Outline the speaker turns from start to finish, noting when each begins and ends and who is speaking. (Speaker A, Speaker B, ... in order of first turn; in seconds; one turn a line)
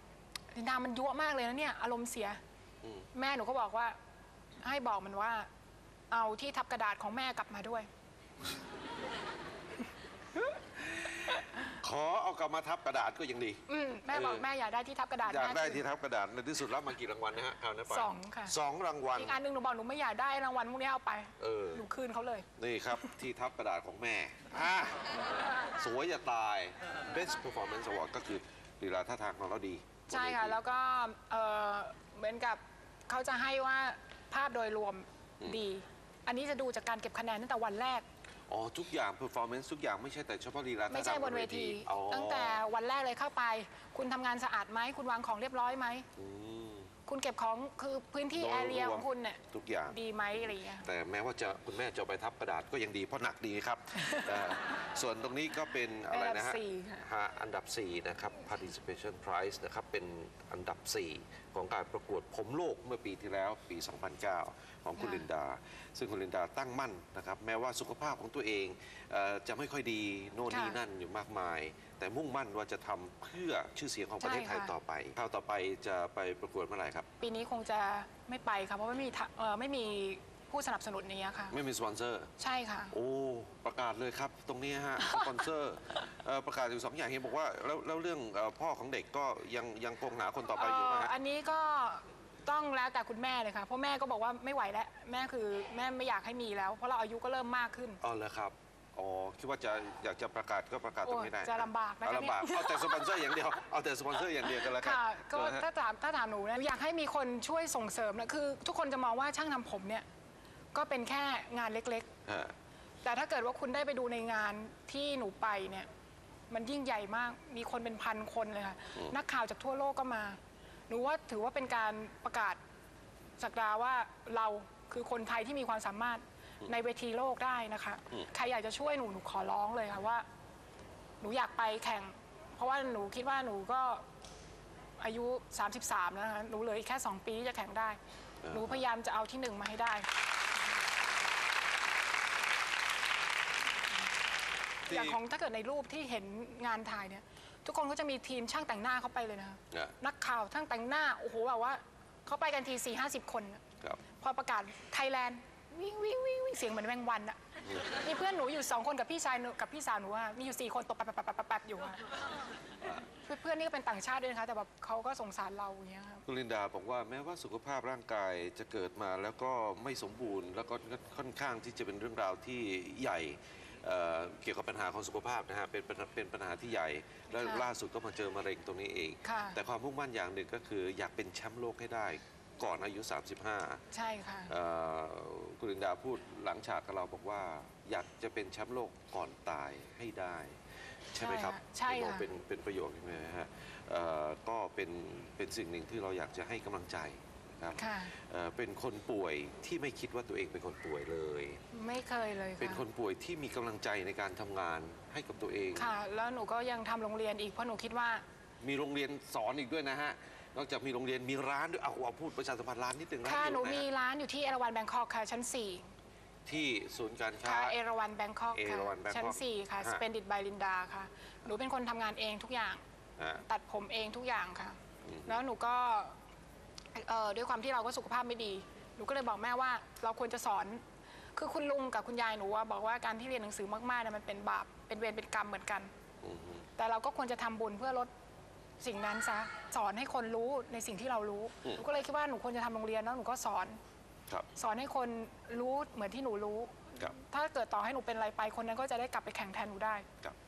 Speaker A: 0.5-2.4
Speaker B: 2.8-3.1
Speaker A: 3.1-4.0
Speaker A: 4.6-5.5
Speaker A: 6.1-7.9
Speaker B: 10.9-14.4
Speaker A: 13.7-15.8
Speaker B: 15.2-19.4
Speaker A: 17.9-18.5
Speaker A: 19.1-22.5
Speaker B: 21.4-21.8
Speaker B: 22.6-30.6
Speaker A: 30.1-38.0
Speaker B: 38.5-42.6
Speaker A: 40.9-46.1
Speaker B: 46.1-46.9
Speaker A: 47.1-50.9
Speaker B: 48.3-77.1
Speaker A: 54.1-54.4
Speaker A: 56.1-57.0
Speaker A: 65.0-65.2
Speaker A: 70.5-70.8
Speaker A: 74.2-74.7
Speaker A: 77.2-81.6
Speaker B: 81.5-82.3
Speaker A: 82.4-82.9
Speaker B: 82.9-91.1
Speaker A: 85.0-85.4
Speaker A: 90.5-98.0
Speaker B: 98.0-105.6
Speaker A: 101.0-103.4
Speaker A: 104.5-110.0
Speaker A: 110.7-112.1
Speaker B: 112.2-112.5
Speaker A: 113.0-115.9
Speaker A: 116.5-122.6
Speaker A: 123.4-130.2
Speaker A: 131.2-134.0
Speaker A: 135.0-138.0
Speaker B: 138.4-138.8
Speaker A: 138.5-140.1
Speaker A: 144.8-153.6
Speaker B: 144.9-145.2
Speaker B: 149.7-149.9
Speaker A: 154.2-162.1
Speaker A: 163.1-166.2
Speaker B: 166.2-183.8
Speaker A: 177.3-177.7
Speaker A: 179.2-179.6
Speaker A: 183.9-184.5
Speaker B: 184.5-190.6
Speaker B: 191.1-201.6
Speaker A: 191.2-192.3
Speaker A: 197.7-198.1
Speaker A: 201.7-202.8
Speaker B: 202.6-205.9
Speaker A: 205.8-208.2
Speaker B: 208.6-213.9
Speaker A: 213.2-215.9
Speaker B: 216.4-217.8
Speaker A: 217.4-222.8
Speaker B: 218.5-220.0
Speaker A: 223.4-226.2
Speaker B: 225.0-225.4
Speaker A: 226.9-230.8
Speaker A: 231.3-235.9
Speaker B: 236.2-236.7
Speaker A: 236.8-238.1
Speaker A: 238.8-243.8
Speaker A: 244.6-250.1